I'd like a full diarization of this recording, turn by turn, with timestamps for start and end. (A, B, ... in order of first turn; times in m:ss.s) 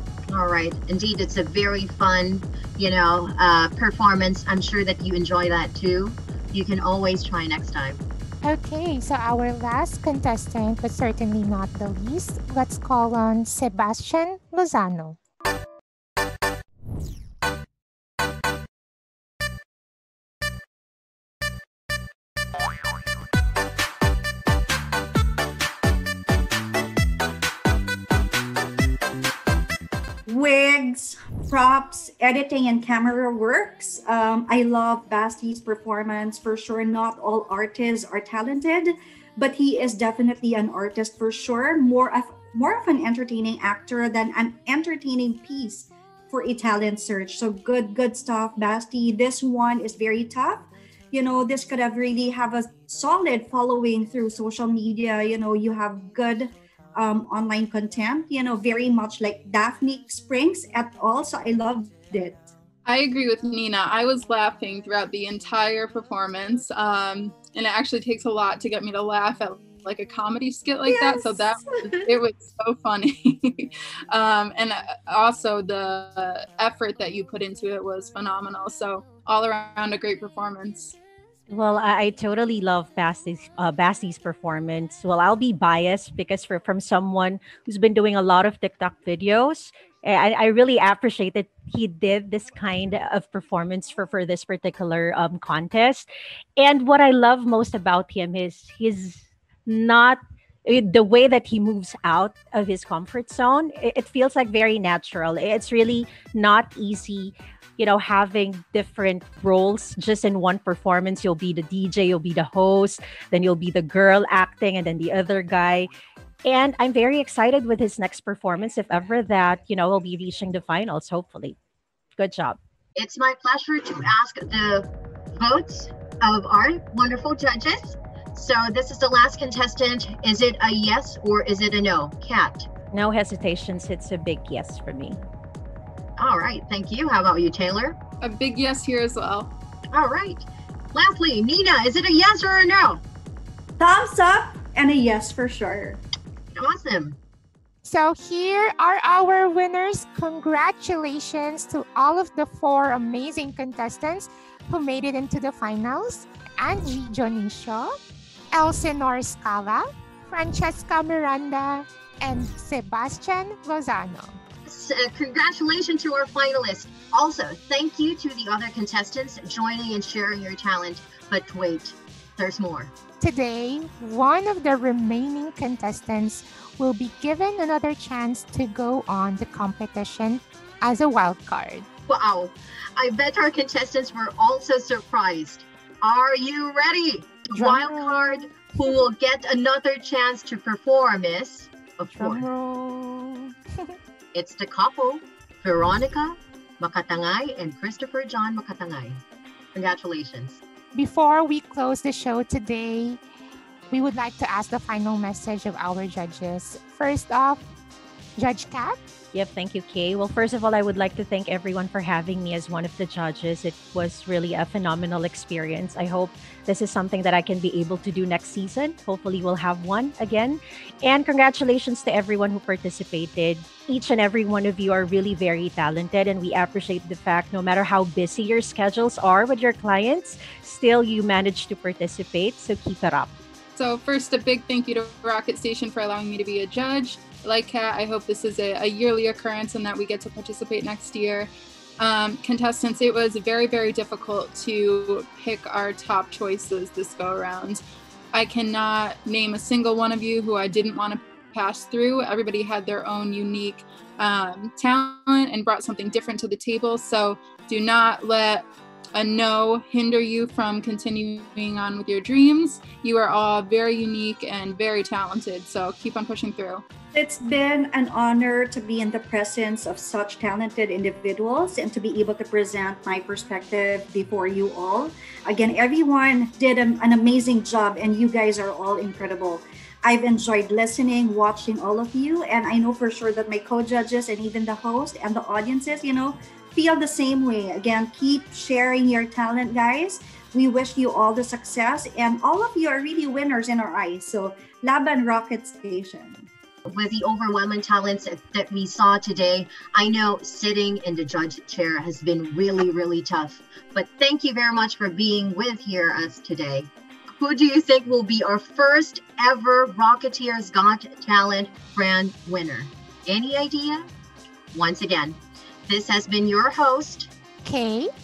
0:00.3-0:08.0 A
0:08.4-0:15.2 B
0:30.3-1:02.5 C
1:02.9-1:21.0 D
1:10.9-1:12.0 C
1:21.5-1:55.9 E
1:56.4-2:01.6 E
2:02.2-2:02.6 E
2:03.0-2:12.7 A
2:12.9-2:15.2 E
2:16.2-2:18.0 A
2:18.2-2:19.5 D
2:19.9-2:23.0 A
2:23.8-2:26.0 C
2:26.5-2:27.2 A
2:27.8-2:38.0 B
2:38.5-2:44.4 B
2:44.7-2:52.9 A
2:53.2-3:01.9 B
3:02.1-3:12.5 A
3:07.6-3:08.6 B
3:12.1-3:13.9 B
3:14.3-3:19.2 A
3:19.8-3:20.6 A
3:21.0-3:23.2 B
3:23.9-3:27.6 B
3:28.4-3:29.0 B
3:29.3-3:53.3 E
3:53.8-4:07.8 D
4:08.3-4:26.8 D
4:27.1-4:56.5 C
4:56.9-5:14.1 A
5:14.7-5:17.3 A
5:17.6-5:18.1 B